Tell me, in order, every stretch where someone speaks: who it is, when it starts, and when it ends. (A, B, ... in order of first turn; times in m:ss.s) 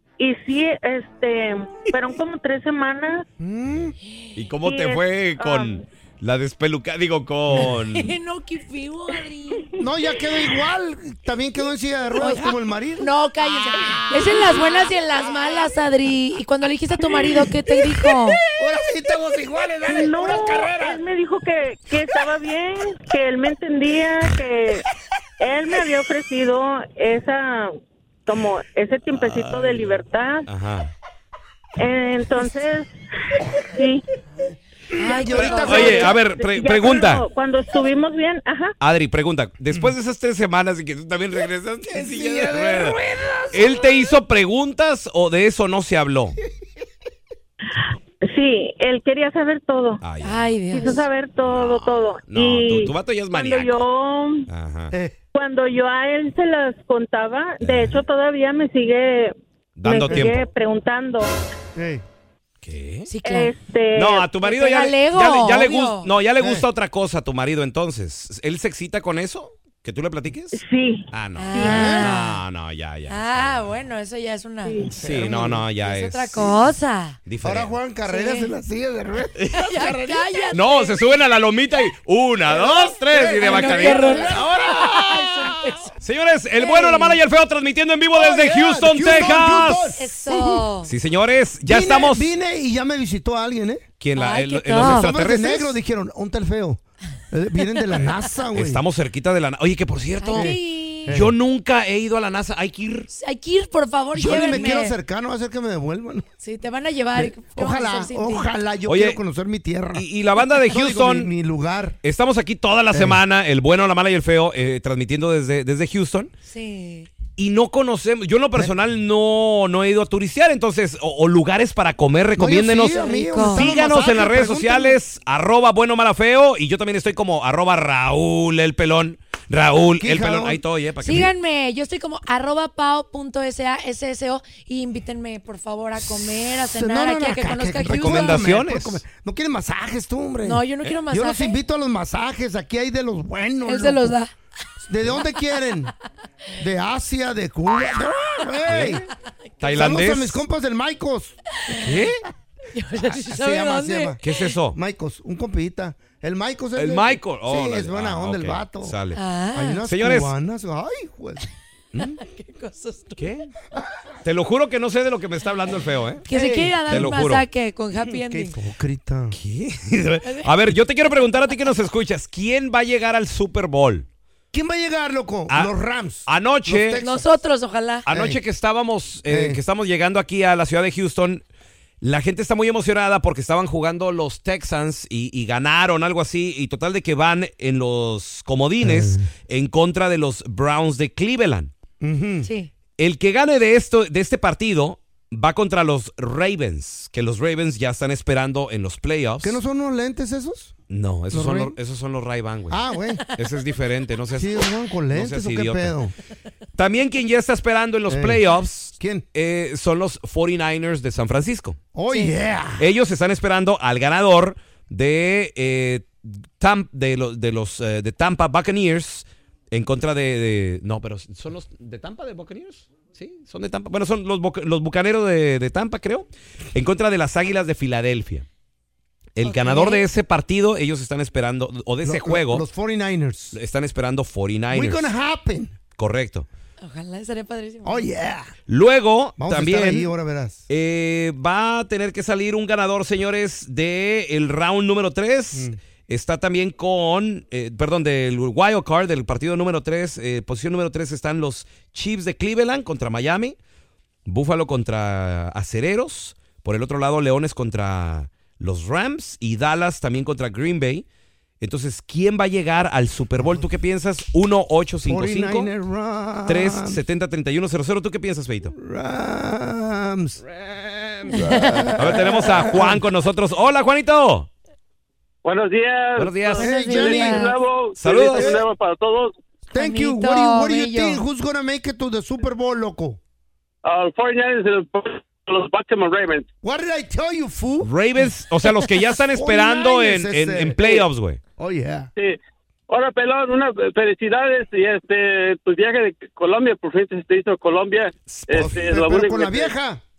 0:00.2-0:03.2 A
0:03.4-0:03.9 B
0:04.4-0:08.1 C
0:04.6-0:05.8 A
0:07.6-0:09.7 D
0:09.8-0:13.0 B
0:12.2-0:18.4 D
0:18.6-0:21.0 B
0:19.9-0:24.8 A
0:25.4-0:27.7 A
0:28.3-0:30.4 A
0:29.1-0:30.9 C
0:31.8-0:32.9 A
0:33.6-0:34.0 A
0:34.9-0:36.1 B
0:35.0-0:36.1 D
0:35.4-0:37.2 C
0:35.8-0:38.7 A
0:38.8-0:43.0 C
0:41.9-0:44.0 B
0:43.5-0:46.4 C
0:48.2-0:50.0 A
0:50.0-0:50.4 C
0:50.2-0:51.0 D
0:50.7-0:54.4 A
0:51.4-0:53.8 C
0:54.5-0:54.9 C
0:55.3-1:01.3 A
0:57.6-0:58.0 C
0:59.8-1:00.5 C
1:00.1-1:00.4 B
1:01.7-1:02.0 B
1:02.6-1:03.1 C
1:03.1-1:03.5 D
1:03.2-1:04.3 A
1:04.0-1:10.6 C
1:04.4-1:06.1 D
1:06.4-1:06.6 B
1:10.5-1:12.0 A
1:11.1-1:13.6 C
1:11.4-1:12.4 D
1:11.6-1:12.1 B
1:13.1-1:17.2 D
1:14.9-1:15.6 B
1:15.0-1:16.5 C
1:17.2-1:17.7 C
1:17.4-1:20.4 B
1:18.1-1:18.5 D
1:19.6-1:21.0 D
1:20.5-1:25.0 C
1:22.5-1:25.7 B
1:23.4-1:25.9 D
1:26.0-1:29.9 C
1:26.6-1:27.2 D
1:28.1-1:30.7 B
1:30.0-1:30.9 D
1:30.9-1:32.3 C
1:31.6-1:33.8 B
1:34.0-1:35.8 C
1:34.2-1:35.1 D
1:34.7-1:38.8 B
1:38.5-1:43.1 C
1:40.2-1:41.1 D
1:40.3-1:41.3 B
1:43.1-1:44.9 D
1:44.1-1:46.2 B
1:44.3-1:44.6 C
1:46.4-1:48.5 D
1:47.1-1:50.1 B
1:48.8-1:49.2 C
1:49.9-1:51.3 C
1:50.6-1:52.0 B
1:52.0-1:56.3 C
1:52.9-1:53.2 B
1:56.4-1:57.1 D
1:57.4-2:11.3 C
2:02.4-2:05.0 B
2:02.9-2:03.6 D
2:10.0-2:11.3 B
2:11.0-2:18.4 D
2:16.0-2:24.2 B
2:17.8-2:19.0 C
2:20.4-2:21.6 D
2:23.6-2:24.3 D
2:24.9-2:25.9 B
2:26.6-2:29.0 B
2:28.6-2:29.0 C
2:29.6-2:30.4 C
2:29.7-2:31.4 B
2:31.8-2:32.2 C
2:32.7-2:34.2 D
2:32.9-2:34.2 B
2:34.2-2:34.8 C
2:34.7-2:39.0 B
2:36.8-2:39.2 C
2:39.1-2:39.8 D
2:39.5-2:42.2 B
2:39.9-2:40.3 C
2:42.2-2:43.2 D
2:43.2-2:43.5 C
2:44.2-2:46.2 C
2:46.3-2:48.5 D
2:46.3-2:47.1 B
2:46.9-2:47.4 C
2:48.0-2:49.4 B
2:49.3-2:54.1 C
2:50.2-2:50.5 D
2:54.5-2:57.2 B
2:56.2-2:57.0 C
2:57.0-2:58.0 D
2:58.0-3:01.4 C
2:58.1-2:58.4 B
2:59.2-2:59.6 B
3:02.0-3:11.7 C
3:08.8-3:09.2 B
3:12.0-3:12.5 B
3:12.4-3:12.7 D
3:13.0-3:19.6 C
3:19.4-3:20.7 B
3:20.9-3:22.8 C
3:21.3-3:21.8 B
3:22.7-3:23.2 B
3:23.3-3:24.5 C
3:24.3-3:26.1 B
3:25.1-3:25.9 C
3:26.8-3:31.8 C
3:28.1-3:28.4 B
3:29.0-3:29.2 B
3:31.9-3:32.8 B
3:32.8-3:48.4 C
3:49.4-3:52.6 C
3:49.4-3:50.0 D
3:52.0-3:53.6 B
3:53.5-3:55.1 C
3:54.7-3:55.8 B
3:56.0-3:56.4 C
3:56.8-3:58.0 D
3:57.8-3:58.5 B
3:58.7-4:00.1 C
3:59.4-4:00.6 B
4:00.7-4:13.6 C
4:14.2-4:21.0 C
4:21.6-4:25.7 C
4:25.0-4:27.0 B
4:26.5-4:28.7 C
4:28.7-4:30.4 B
4:30.4-4:31.4 C
4:31.3-4:33.0 B
4:31.3-4:31.9 D
4:31.9-4:34.5 C
4:35.4-4:39.3 E
4:36.2-4:36.8 C
4:36.6-4:37.4 B
4:36.6-4:37.5 D
4:38.0-4:38.6 C
4:38.3-4:38.6 B
4:39.7-4:43.2 B
4:39.7-4:41.2 D
4:43.8-4:46.5 E
4:46.6-4:47.9 B
4:47.8-4:51.4 C
4:49.3-4:51.0 B
4:51.6-4:52.1 B
4:52.2-4:59.7 E
4:58.3-4:59.0 C
4:58.5-5:00.0 B